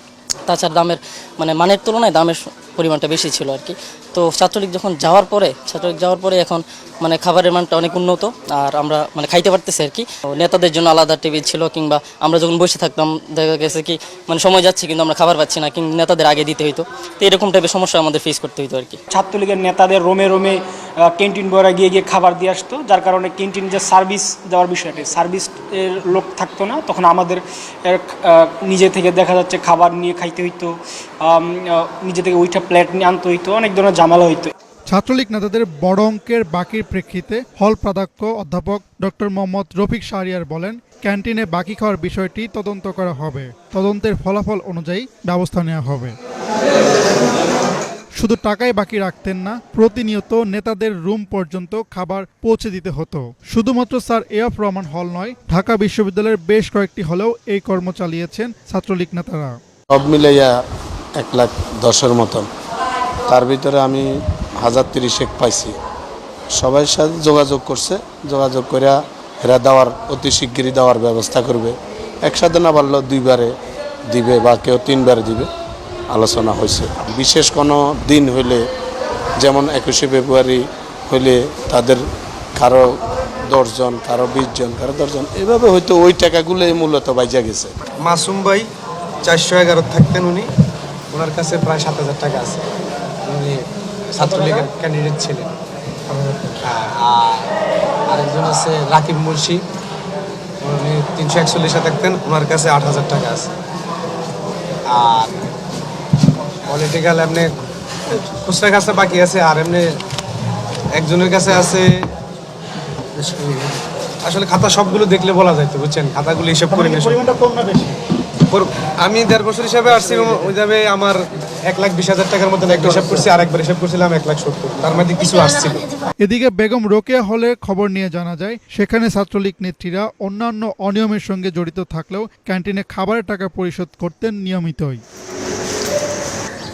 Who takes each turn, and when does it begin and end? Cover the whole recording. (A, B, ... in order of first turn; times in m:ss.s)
0:00.4-0:19.0 A
0:19.1-0:34.5 B
0:34.9-0:46.2 C
0:48.1-0:59.6 C
0:59.9-1:00.5 D
1:01.2-1:02.5 D
1:03.3-1:04.1 D
1:04.6-1:05.7 D
1:06.6-1:13.5 D
1:14.1-1:15.5 D
1:16.1-1:18.6 D
1:19.4-1:22.0 D
1:22.6-1:27.7 D
1:28.0-1:28.7 E
1:29.2-1:30.5 E
1:31.1-1:32.6 E
1:33.3-1:33.6 E
1:34.1-1:35.5 E
1:36.1-1:37.5 E
1:38.1-1:39.6 E
1:40.6-1:43.5 E
1:44.9-1:45.3 E
1:46.7-1:47.5 E
1:48.1-1:49.9 E
1:51.0-1:52.1 E
1:53.4-1:53.7 E
1:54.2-1:57.2 E
1:57.3-1:57.9 C
1:58.5-2:05.9 E
2:06.2-2:15.0 C